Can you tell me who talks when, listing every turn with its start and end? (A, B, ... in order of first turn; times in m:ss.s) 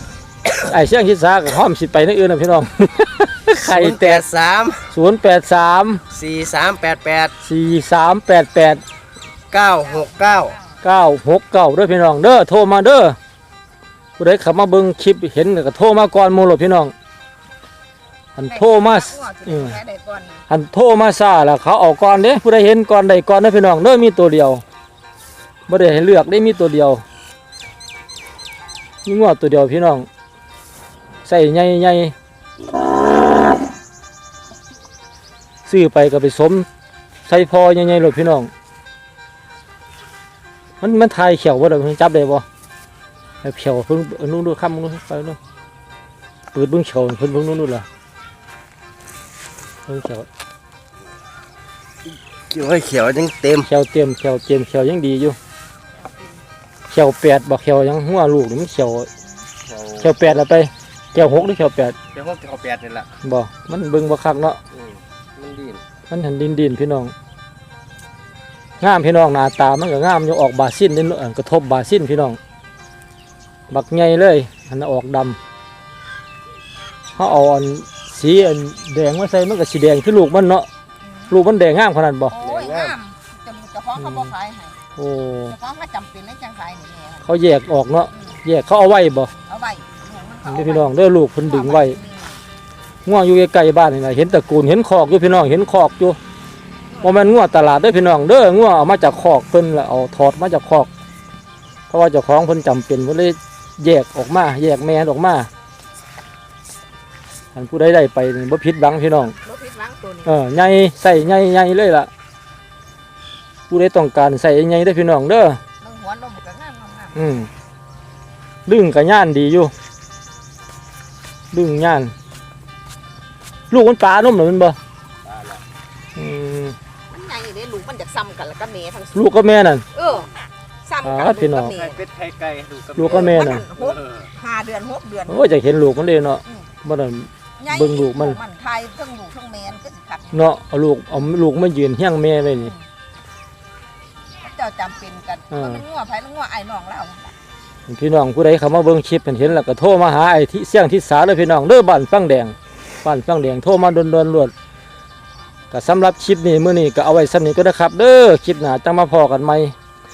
0:00.6-0:04.2 A
0:03.6-0:04.9 B
0:04.9-0:06.0 A
0:06.1-0:07.3 B
0:07.4-0:08.8 A
0:09.5-0:10.6 B
0:09.8-0:10.8 C
0:10.8-0:13.2 A
0:14.2-0:16.9 A
0:18.4-0:19.8 A
0:18.5-0:20.4 C
0:20.5-0:24.6 A
0:25.7-0:27.0 A
0:29.1-0:30.1 A
0:31.2-0:32.1 A
0:35.7-0:36.7 A
0:37.3-0:38.5 A
0:40.8-0:42.4 A
0:43.4-0:45.4 A
0:46.5-0:47.8 A
0:49.9-0:50.3 A
0:52.5-0:53.7 B
0:53.7-0:55.4 A
0:56.0-0:56.4 C
0:56.9-0:59.1 A
0:59.7-1:00.0 B
1:00.0-1:02.0 A
1:02.1-1:03.1 B
1:03.2-1:04.6 A
1:04.7-1:05.8 B
1:06.1-1:07.1 A
1:08.8-1:12.4 A
1:13.7-1:15.4 A
1:17.2-1:20.7 A
1:21.0-1:21.3 C
1:21.3-1:22.3 A
1:22.3-1:24.8 C
1:22.4-1:23.0 B
1:24.0-1:24.3 A
1:25.0-1:25.5 A
1:25.5-1:27.3 C
1:27.2-1:29.3 A
1:28.1-1:28.4 C
1:29.5-1:32.4 C
1:30.4-1:32.0 A
1:33.1-1:36.2 A
1:36.9-1:37.3 C
1:37.0-1:40.9 A
1:41.9-1:45.5 A
1:47.5-1:49.4 A
1:49.4-1:50.4 C
1:50.2-1:52.1 A
1:53.7-1:55.6 A
1:55.8-1:57.3 C
1:57.2-1:57.5 A
1:58.7-1:59.7 A
2:01.5-2:02.1 A
2:03.7-2:04.8 A
2:06.2-2:06.8 A
2:07.1-2:09.4 C
2:09.1-2:09.8 A
2:09.9-2:10.3 C
2:10.8-2:12.1 C
2:11.0-2:11.7 A
2:11.6-2:14.0 B
2:13.0-2:13.6 A
2:13.0-2:15.6 C
2:15.3-2:18.4 A
2:16.4-2:16.7 C
2:17.6-2:20.5 C
2:20.3-2:22.7 A
2:22.5-2:22.8 C
2:24.4-2:27.4 C
2:25.5-2:25.8 A
2:27.9-2:34.5 A
2:35.7-2:39.7 A